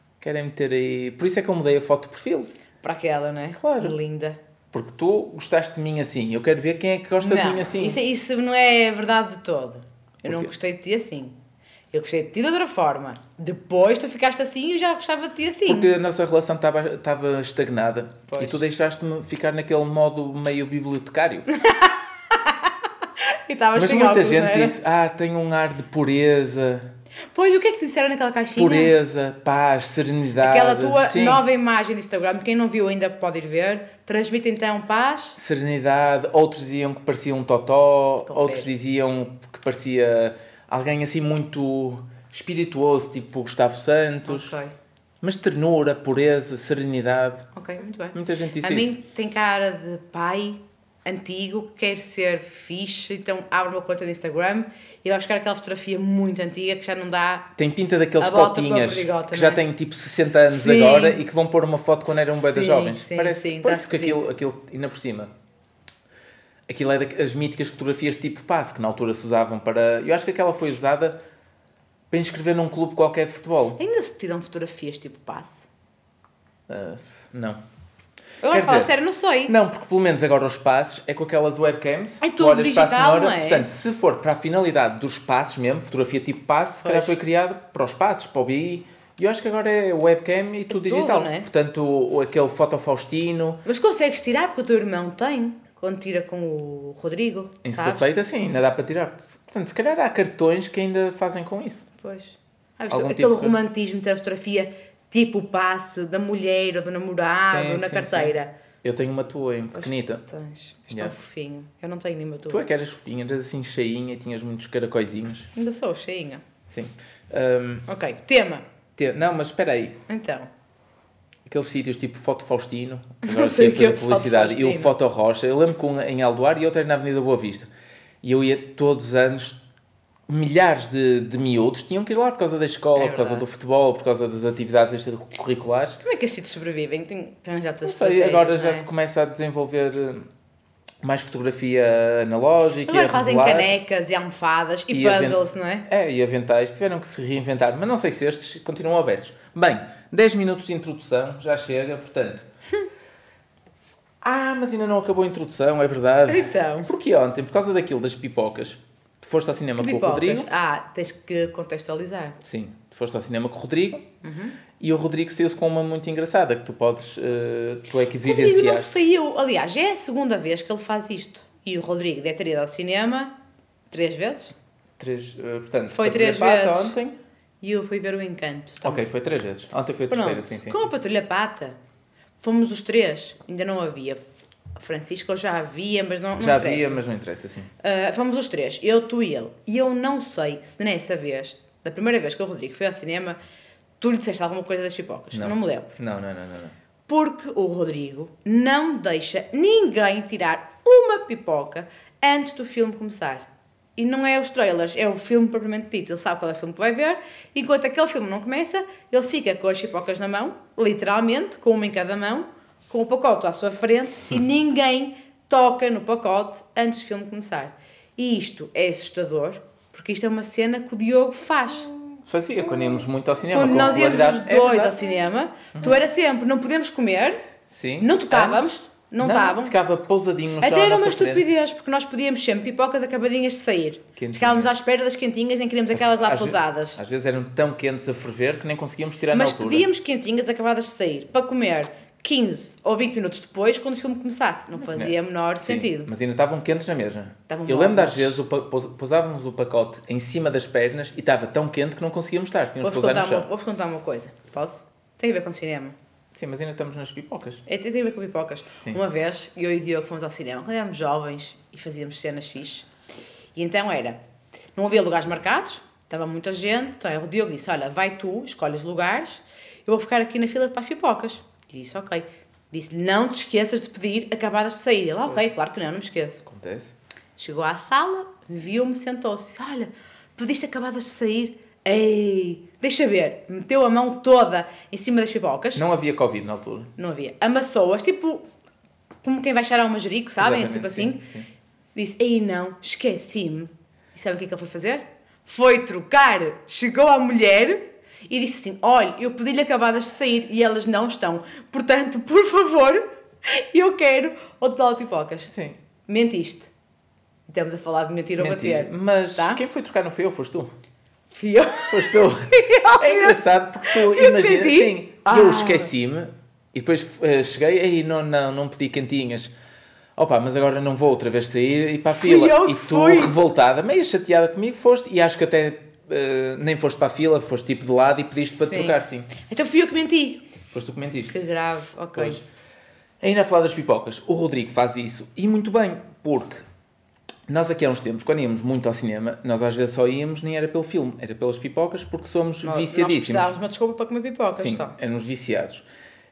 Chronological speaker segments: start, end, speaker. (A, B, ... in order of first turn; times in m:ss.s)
0:00.2-0:02.5 A
0:02.8-0:04.4 B
0:03.6-0:04.0 A
0:04.7-0:08.0 A
0:07.2-0:11.4 B
0:10.2-0:10.5 A
0:11.9-0:15.9 B
0:15.6-0:21.5 A
0:18.3-0:18.6 B
0:21.6-0:24.8 B
0:23.8-0:26.9 A
0:27.3-0:28.9 B
0:28.6-0:31.4 A
0:30.4-0:35.4 B
0:35.4-0:44.6 A
0:38.3-0:38.7 B
0:44.2-0:44.7 B
0:45.2-0:47.5 A
0:47.6-0:57.5 B
0:48.1-0:48.9 A
0:57.6-1:05.3 A
0:58.2-0:59.6 B
1:00.5-1:01.2 B
1:02.5-1:04.3 B
1:06.7-1:11.2 A
1:12.1-1:13.8 A
1:13.8-1:15.6 B
1:16.7-1:17.6 A
1:18.4-1:19.5 B
1:18.5-1:18.9 A
1:19.5-1:33.6 A
1:22.2-1:23.7 B
1:26.8-1:27.2 B
1:30.7-1:31.5 B
1:33.6-1:38.1 B
1:37.6-1:41.8 A
1:42.0-1:48.5 B
1:42.9-1:43.6 A
1:47.4-1:50.2 A
1:49.8-1:52.6 B
1:52.5-1:55.5 A
1:55.6-1:56.4 B
1:56.7-1:57.9 A
1:57.9-1:58.6 B
1:59.0-2:00.0 A
2:00.1-2:00.5 B
2:01.5-2:07.7 A
2:03.2-2:04.9 B
2:08.2-2:09.6 A
2:10.3-2:16.0 A
2:13.0-2:13.5 B
2:16.0-2:18.9 B
2:17.8-2:20.2 A
2:21.0-2:23.8 A
2:22.9-2:25.9 B
2:24.9-2:32.4 A
2:34.2-2:40.5 A
2:36.3-2:36.9 B
2:39.8-2:42.4 B
2:42.4-2:44.1 A
2:44.2-2:44.6 B
2:44.8-2:49.0 A
2:48.2-2:53.3 B
2:53.9-2:54.5 B
2:55.0-2:57.2 A
2:55.9-2:57.0 B
2:57.6-2:59.0 B
2:58.8-3:00.8 A
3:00.1-3:01.8 B
3:02.4-3:04.2 B
3:04.8-3:07.0 B
3:06.4-3:07.7 A
3:07.8-3:13.4 B
3:14.0-3:16.0 B
3:15.3-3:16.8 A
3:17.1-3:41.9 B
3:42.2-3:45.0 A
3:43.5-3:47.4 B
3:45.7-3:46.0 A
3:47.7-3:51.5 A
3:48.0-3:49.7 B
3:50.6-3:57.0 B
3:54.2-3:54.7 A
3:56.0-3:59.9 A
3:59.3-4:06.1 B
4:04.8-4:13.5 A
4:07.5-4:08.4 B
4:12.8-4:16.0 B
4:16.3-4:17.6 A
4:17.6-4:22.9 B
4:23.6-4:24.2 B
4:24.8-4:36.4 B
4:36.4-4:37.0 A
4:37.4-4:45.8 B
4:45.8-4:46.9 A
4:47.0-4:48.5 B
4:49.2-4:51.2 B
4:50.4-4:51.5 A
4:52.0-5:05.5 B
5:05.5-5:05.8 A
5:06.1-5:06.7 B
5:07.5-5:09.6 B
5:08.4-5:10.7 A
5:11.3-5:15.9 B
5:11.9-5:19.5 A
5:20.2-5:29.3 A
5:22.2-5:23.4 B
5:28.6-5:30.4 B
5:30.7-5:31.4 A
5:31.3-5:32.4 B
5:32.1-5:32.4 A
5:33.2-5:36.6 A
5:37.5-5:43.5 A
5:42.6-5:44.9 B
5:44.6-5:45.8 A